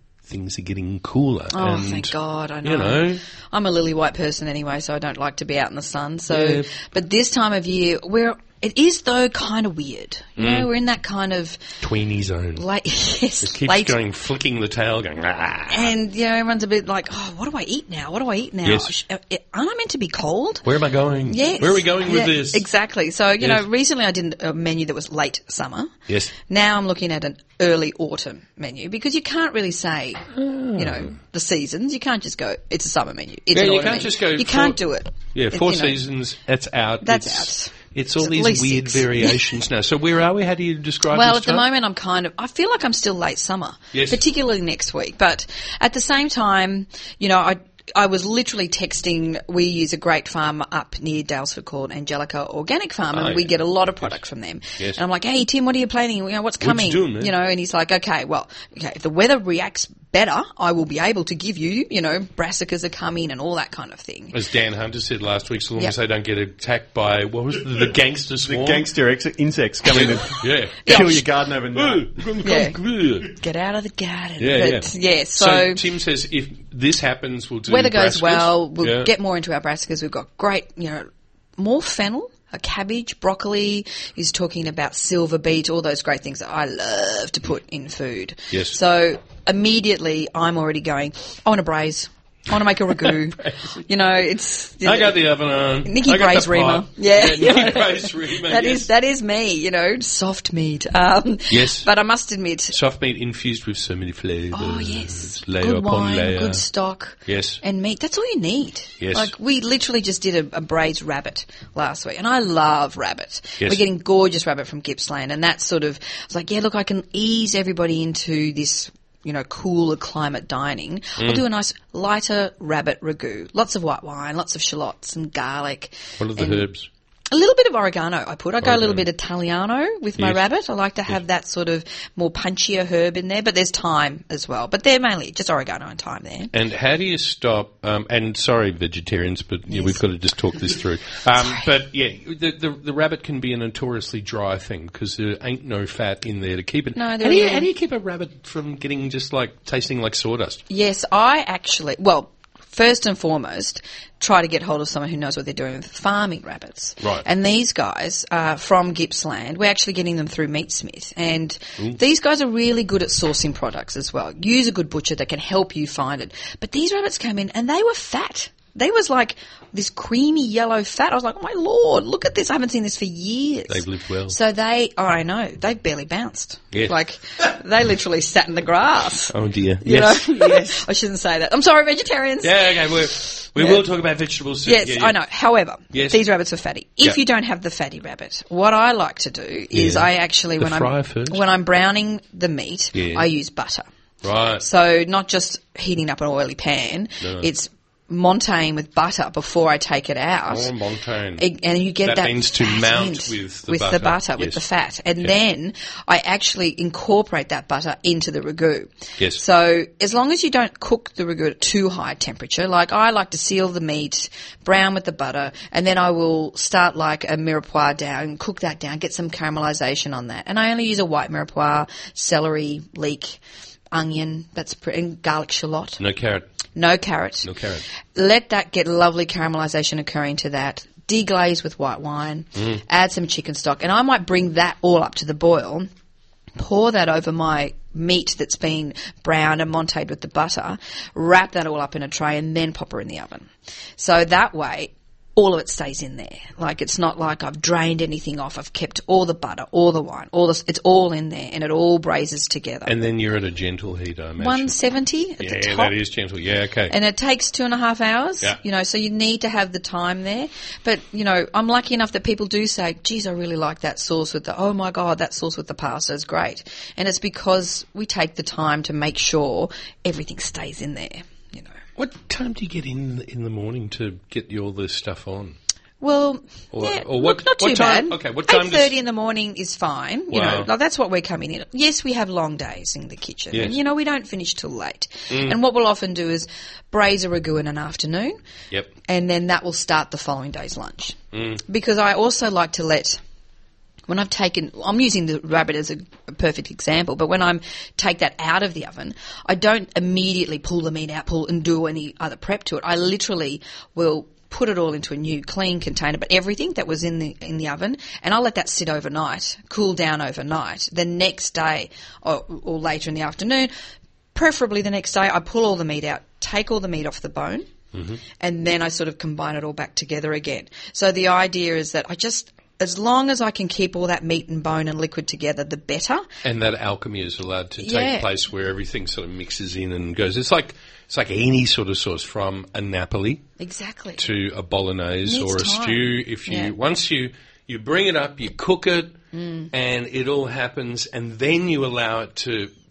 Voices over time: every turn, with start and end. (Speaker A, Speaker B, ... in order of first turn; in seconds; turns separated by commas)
Speaker A: 0.3-3.2, Speaker B: 1.5-11.6, Speaker A: 6.3-6.7, Speaker A: 10.4-10.7, Speaker A: 11.8-12.6, Speaker B: 12.6-14.0, Speaker A: 13.4-15.9, Speaker B: 15.7-20.6, Speaker A: 18.6-18.9, Speaker A: 20.6-22.6, Speaker B: 21.3-25.9, Speaker A: 26.1-26.3, Speaker B: 26.5-36.0, Speaker A: 30.4-31.1, Speaker A: 33.5-41.7, Speaker B: 37.0-39.5, Speaker B: 41.1-64.3, Speaker A: 43.9-44.2, Speaker A: 53.1-54.2, Speaker A: 56.6-57.3, Speaker A: 64.3-68.9, Speaker C: 68.4-72.3, Speaker A: 69.9-73.3, Speaker B: 70.8-71.1, Speaker B: 72.4-72.8, Speaker B: 73.3-75.8, Speaker A: 74.4-79.1, Speaker B: 77.7-95.2, Speaker A: 88.5-88.8, Speaker A: 93.4-93.7, Speaker A: 94.8-98.9, Speaker B: 95.8-102.8, Speaker A: 101.5-101.9, Speaker A: 102.7-106.6, Speaker B: 104.5-126.7, Speaker A: 107.3-107.6, Speaker A: 109.0-109.3, Speaker A: 126.2-126.9, Speaker B: 127.3-136.5, Speaker A: 128.6-129.0, Speaker A: 136.5-150.6, Speaker B: 139.7-140.0, Speaker B: 141.4-141.7, Speaker B: 147.0-147.7, Speaker B: 150.7-183.8, Speaker A: 157.0-157.3, Speaker A: 173.7-174.4, Speaker A: 176.7-177.5, Speaker A: 179.3-180.8, Speaker A: 182.4-185.2, Speaker B: 184.7-193.9, Speaker A: 185.9-186.2, Speaker A: 189.7-191.4, Speaker A: 192.9-193.3, Speaker A: 194.2-194.6, Speaker B: 194.6-200.7, Speaker A: 197.2-197.5, Speaker A: 200.5-201.4, Speaker B: 201.4-223.4, Speaker A: 202.0-204.6, Speaker B: 223.9-226.0, Speaker A: 226.0-226.5, Speaker B: 226.8-227.5, Speaker A: 227.4-227.8, Speaker B: 228.1-235.9, Speaker B: 236.6-253.0, Speaker A: 252.9-254.8, Speaker B: 254.4-255.9, Speaker A: 255.4-256.9, Speaker B: 256.9-271.7, Speaker A: 272.0-275.6, Speaker B: 276.0-288.4, Speaker A: 276.7-278.9, Speaker A: 280.3-280.7, Speaker A: 285.3-285.6, Speaker B: 289.1-293.2, Speaker A: 291.3-291.6, Speaker B: 294.1-313.7, Speaker B: 314.4-317.7, Speaker A: 317.9-318.2, Speaker B: 318.4-326.2, Speaker A: 326.4-333.4, Speaker B: 327.8-328.3, Speaker B: 333.6-334.2, Speaker A: 334.2-339.1, Speaker B: 335.2-336.7, Speaker B: 339.3-339.7, Speaker A: 339.7-342.7